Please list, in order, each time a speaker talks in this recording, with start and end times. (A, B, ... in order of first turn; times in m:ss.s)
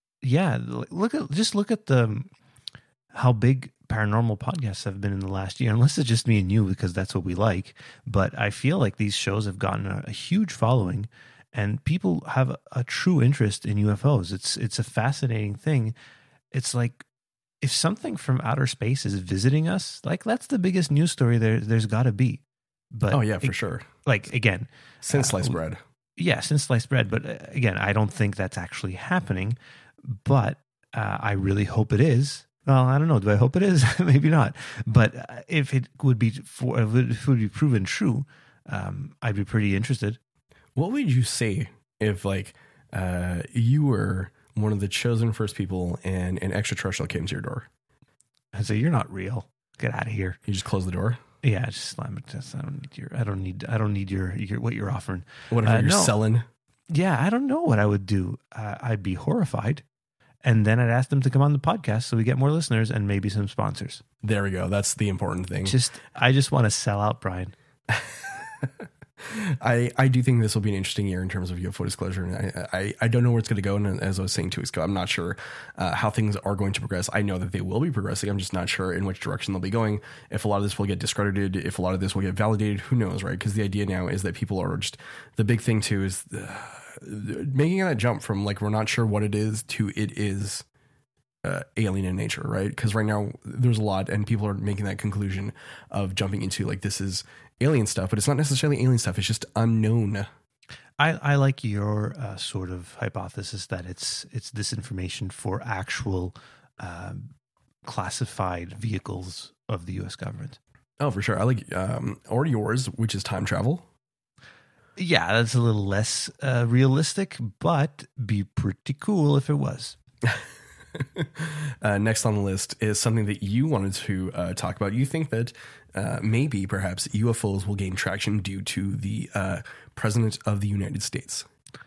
0:00.2-0:02.3 A
0:03.1-0:15.9 A
0:16.5-0:17.0 A
0:17.6-0:22.4 A
0:22.9-0:25.6 A
0:23.1-0:23.9 B
0:25.0-0:25.8 B
0:26.2-0:40.2 A
0:40.8-0:47.7 B
0:48.5-0:50.4 A
0:50.4-0:51.2 B
0:51.4-0:56.2 A
0:55.5-0:56.5 B
0:56.9-0:59.8 A
1:00.4-1:04.0 A
1:04.2-1:05.8 B
1:05.6-1:07.5 A
1:07.9-1:30.6 B
1:31.4-1:40.3 B
1:41.0-1:47.3 A
1:47.8-1:50.6 A
1:51.0-1:53.8 B
1:55.0-2:00.0 A
2:00.9-2:11.4 B